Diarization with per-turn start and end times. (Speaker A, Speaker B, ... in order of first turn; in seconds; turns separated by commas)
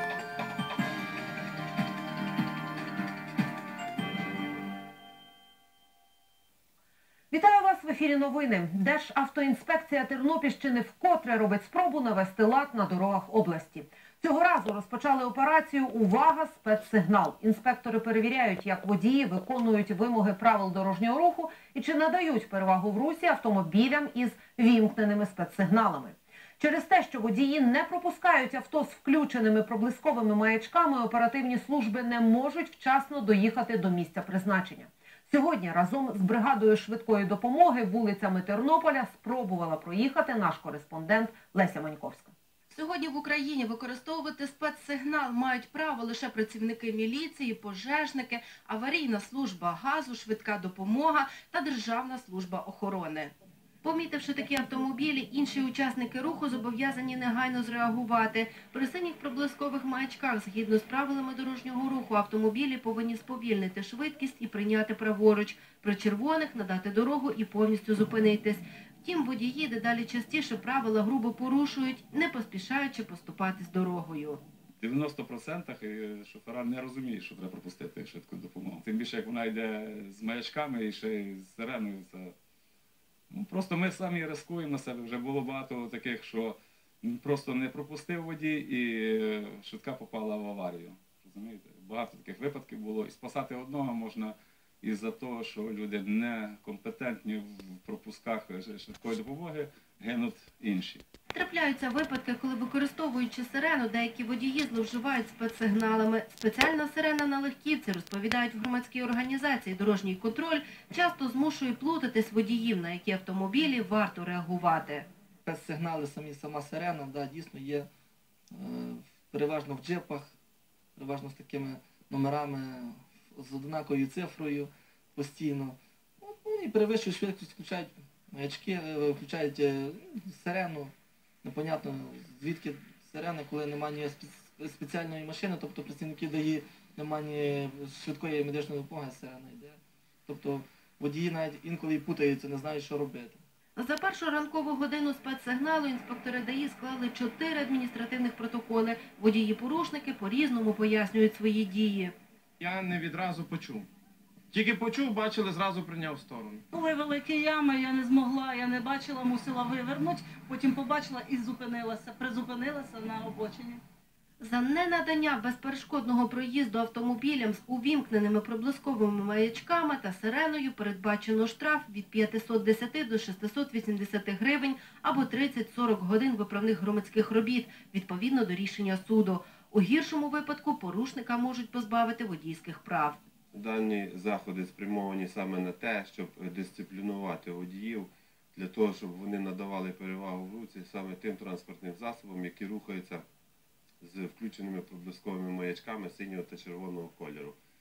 Speaker A: 7.3-42.3, Speaker B: 42.7-74.4, Speaker C: 74.8-82.3, Speaker C: 83.3-101.0, Speaker B: 101.3-115.1, Speaker D: 115.4-117.9, Speaker D: 118.5-120.3, Speaker D: 121.0-143.4, Speaker B: 143.8-152.1, Speaker E: 152.6-153.9, Speaker E: 154.5-156.7, Speaker F: 156.7-163.8, Speaker B: 164.4-183.2, Speaker G: 183.5-193.2, Speaker G: 194.0-197.6